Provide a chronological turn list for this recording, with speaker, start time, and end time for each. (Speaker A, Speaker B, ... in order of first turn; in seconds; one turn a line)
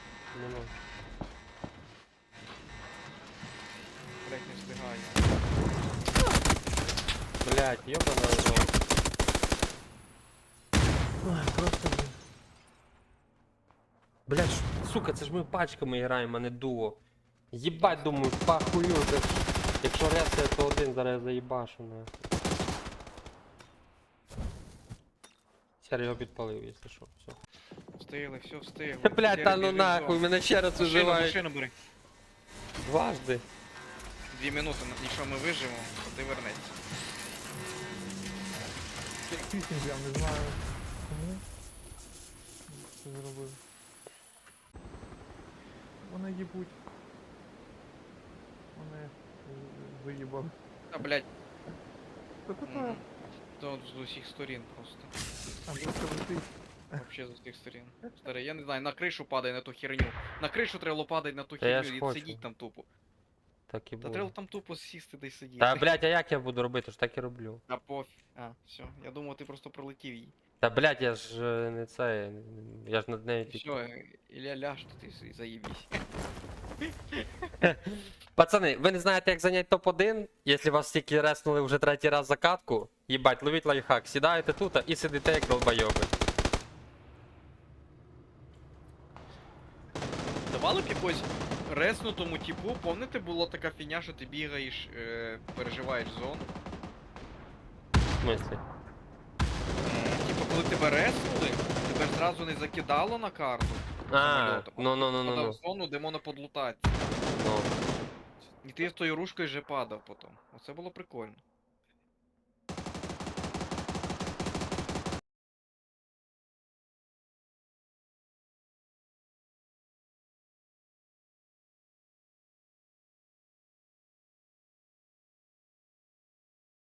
Speaker A: 0.3-0.7
Speaker B: 4.2-5.3
Speaker A: 7.4-8.7
Speaker C: 11.2-12.2
Speaker A: 14.3-17.0
Speaker A: 17.5-22.1
Speaker B: 17.7-18.4
Speaker A: 25.8-27.4
Speaker B: 28.0-31.7
Speaker A: 29.0-31.4
Speaker A: 32.9-33.5
Speaker B: 34.3-36.8
Speaker C: 39.3-41.4
Speaker C: 42.7-43.6
Speaker C: 46.0-46.8
Speaker C: 48.7-50.5
Speaker B: 50.9-51.3
Speaker C: 52.5-53.0
Speaker B: 52.6-53.1
Speaker B: 53.6-55.1
Speaker C: 55.7-57.0
Speaker B: 57.0-62.9
Speaker A: 61.6-62.4
Speaker A: 63.7-64.3
Speaker B: 64.0-65.9
Speaker A: 65.6-67.6
Speaker B: 67.7-70.3
Speaker A: 70.6-73.8
Speaker B: 73.5-76.0
Speaker B: 76.8-77.5
Speaker A: 77.6-86.1
Speaker B: 90.5-96.5
Speaker A: 98.2-98.6
Speaker B: 99.8-107.1
Speaker A: 104.1-105.6
Speaker A: 107.3-107.7
Speaker B: 108.6-111.4